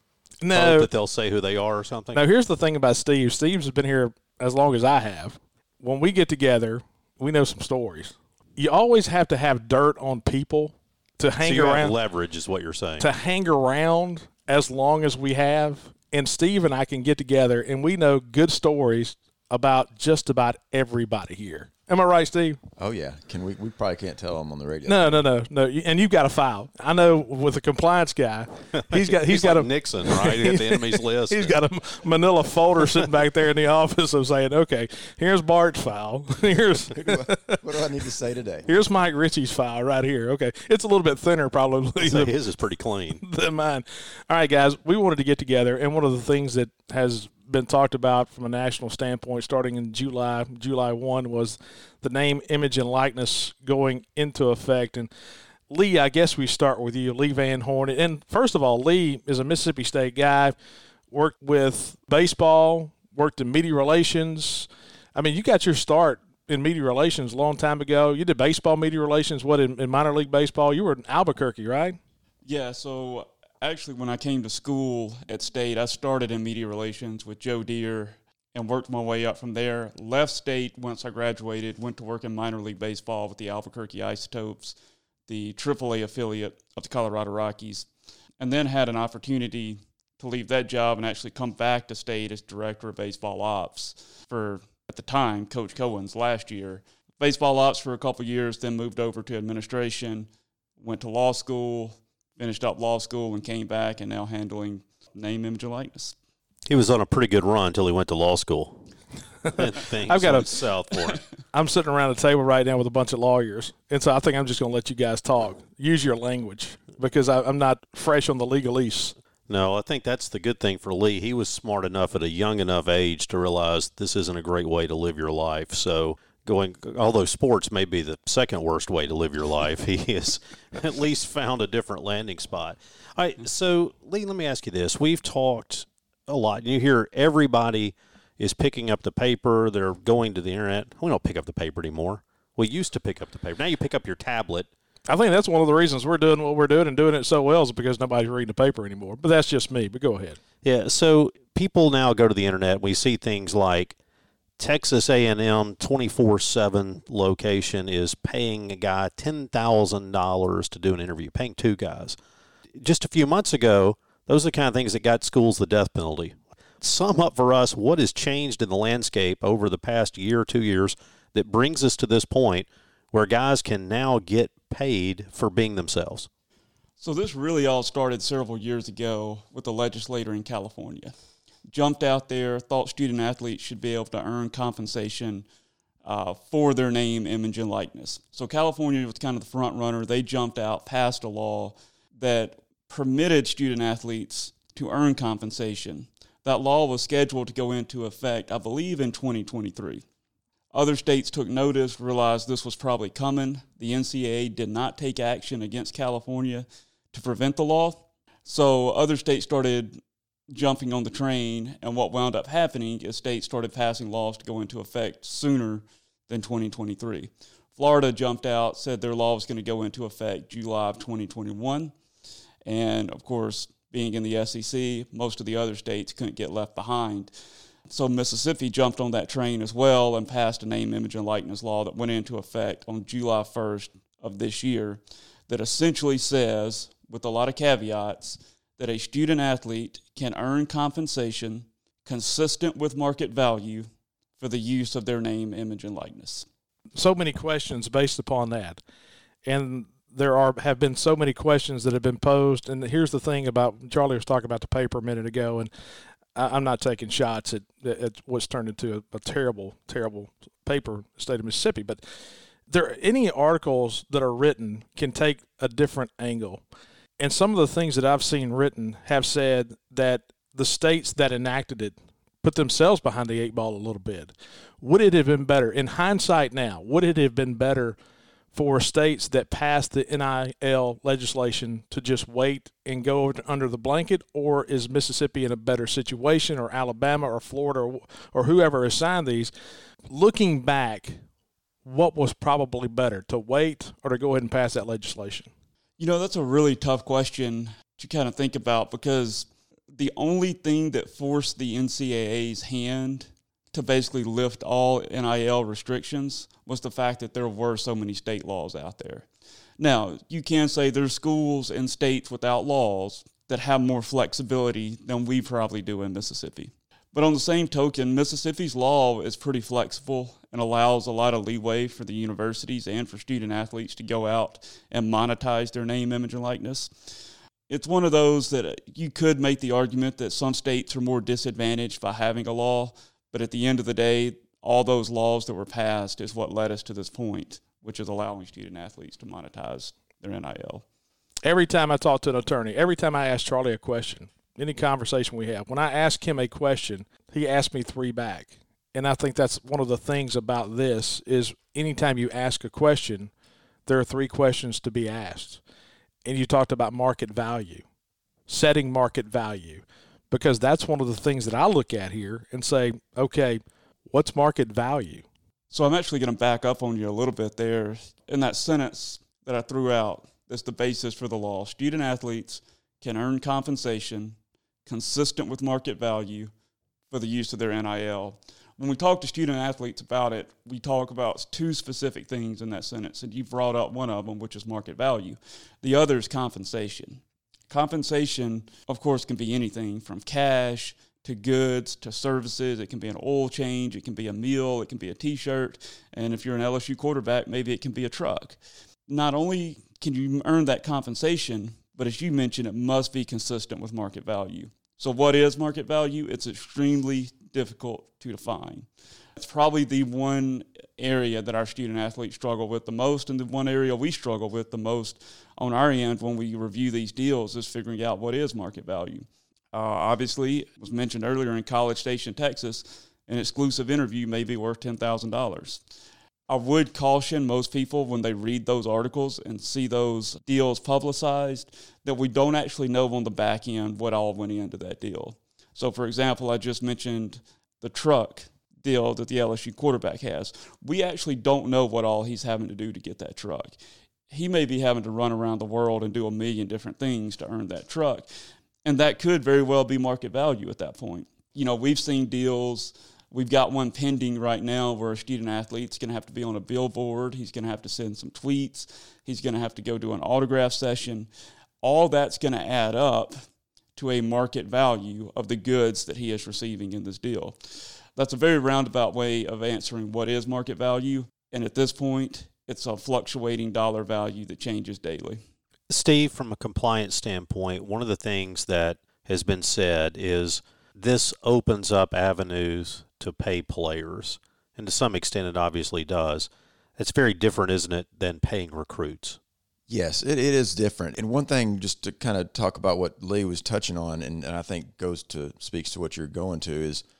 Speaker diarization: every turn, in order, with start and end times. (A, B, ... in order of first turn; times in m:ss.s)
0:00.4-0:00.9 A
0:00.5-0:02.2 B
0:02.1-0:11.9 A
0:11.4-0:13.1 B
0:13.0-0:22.6 A
0:22.8-0:25.2 C
0:24.8-0:37.6 A
0:28.9-0:31.6 B
0:36.9-0:38.7 C
0:38.7-0:42.3 A
0:42.0-0:43.2 B
0:43.2-0:55.1 A
0:55.7-1:00.5 A
1:01.1-1:12.0 A
1:12.4-1:24.8 D
1:25.3-1:27.9 D
1:28.4-1:46.1 D
1:46.7-1:48.8 B
1:49.4-1:50.5 A
1:49.5-1:51.2 B
1:51.5-1:59.1 A
1:59.5-2:24.7 B
2:25.1-2:30.4 A
2:30.6-2:34.0 B
2:34.6-2:42.2 B
2:42.8-2:56.3 B
2:57.0-3:01.1 D
3:01.7-3:05.4 D
3:06.0-3:20.0 D
3:20.7-3:41.9 D
3:42.6-3:47.3 D
3:47.9-4:03.9 D
4:04.4-4:06.5 D
4:07.0-4:08.8 A
4:09.4-4:15.7 A
4:16.3-4:22.0 A
4:22.7-4:26.6 A
4:27.2-4:38.0 A
4:38.5-4:49.5 A
4:50.1-4:51.2 A
4:51.8-4:55.5 A
4:56.0-5:09.3 D
5:09.8-5:40.8 D
5:41.4-5:53.3 A
5:53.8-5:55.6 A
5:56.2-5:57.8 A
5:58.5-6:05.2 A
6:05.7-6:16.5 D
6:17.1-7:05.8 D
7:06.5-7:23.8 D
7:24.3-7:28.3 D
7:28.8-7:41.3 D
7:41.8-7:43.4 D
7:44.0-7:55.4 D
7:55.9-8:09.4 B
8:09.9-8:17.0 C